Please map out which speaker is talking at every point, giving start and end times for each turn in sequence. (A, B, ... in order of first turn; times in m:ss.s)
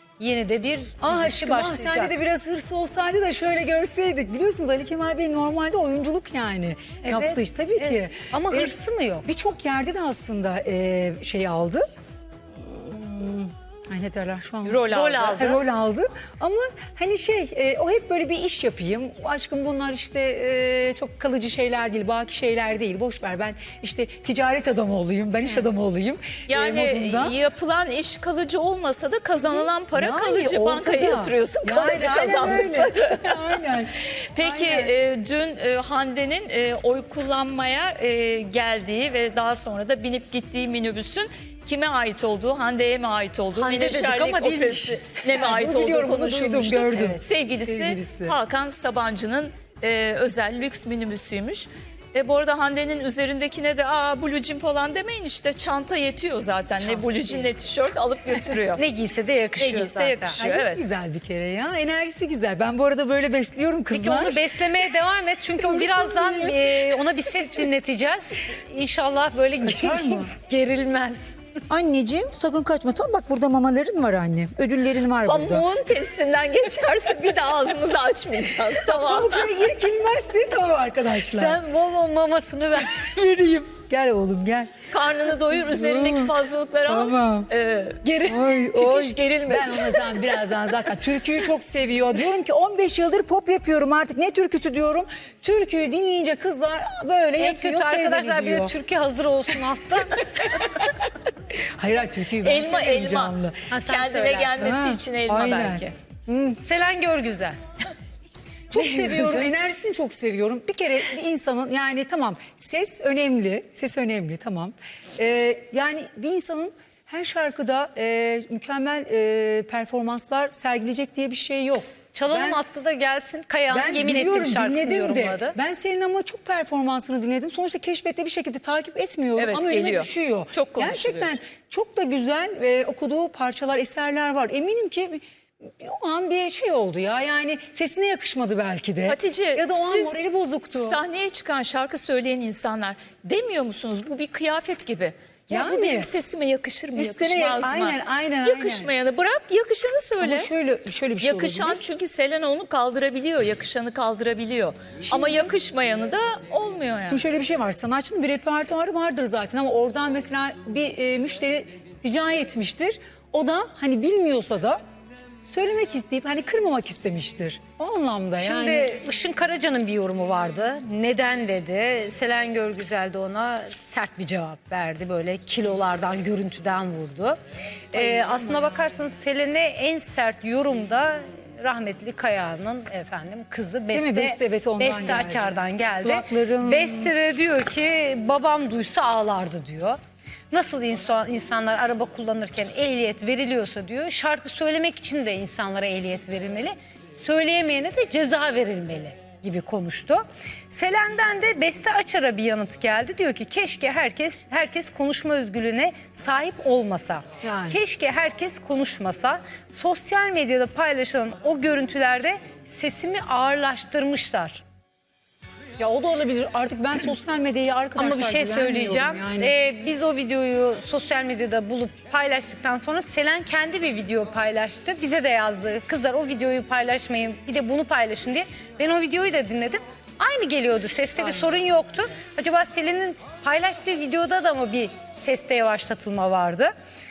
0:00.2-0:02.2 A
0:01.0-0:11.9 B
0:07.0-0:09.3 A
0:12.6-0:27.4 B
0:14.6-0:15.6 C
0:14.9-0:15.6 A
0:26.5-0:58.8 C
0:29.4-0:34.9 B
0:43.5-0:45.0 A
0:45.3-0:48.4 B
0:46.9-0:47.2 A
0:56.8-0:57.6 B
0:58.8-1:00.4 A
0:59.6-1:00.8 C
1:00.4-1:04.4 B
1:03.9-1:11.4 A
1:05.6-1:07.7 B
1:09.6-1:10.3 B
1:11.7-1:15.7 B
1:15.2-1:19.6 C
1:18.7-1:21.6 B
1:21.1-1:23.1 A
1:22.9-1:26.3 B
1:24.9-1:30.4 C
1:26.9-1:27.5 B
1:28.0-1:28.5 A
1:28.2-1:38.7 B
1:37.4-1:40.7 A
1:41.5-1:43.7 B
1:42.3-1:45.9 C
1:43.7-1:44.7 A
1:44.6-1:46.6 B
1:46.6-1:47.6 A
1:48.7-2:02.6 B
1:48.8-1:49.5 A
2:02.1-2:05.6 A
2:03.7-2:21.0 B
2:09.4-2:11.4 C
2:19.1-2:20.2 C
2:20.8-2:30.5 C
2:25.5-2:26.1 B
2:27.0-2:28.9 B
2:30.2-2:31.8 B
2:31.2-2:37.3 C
2:35.0-2:35.5 B
2:37.1-2:44.8 B
2:45.5-2:49.0 B
2:48.4-2:57.4 A
2:57.9-3:10.0 A
2:57.9-2:58.7 B
3:03.9-3:07.1 B
3:10.5-3:34.6 A
3:27.4-3:27.8 B
3:35.8-3:39.6 B
3:38.0-3:56.7 A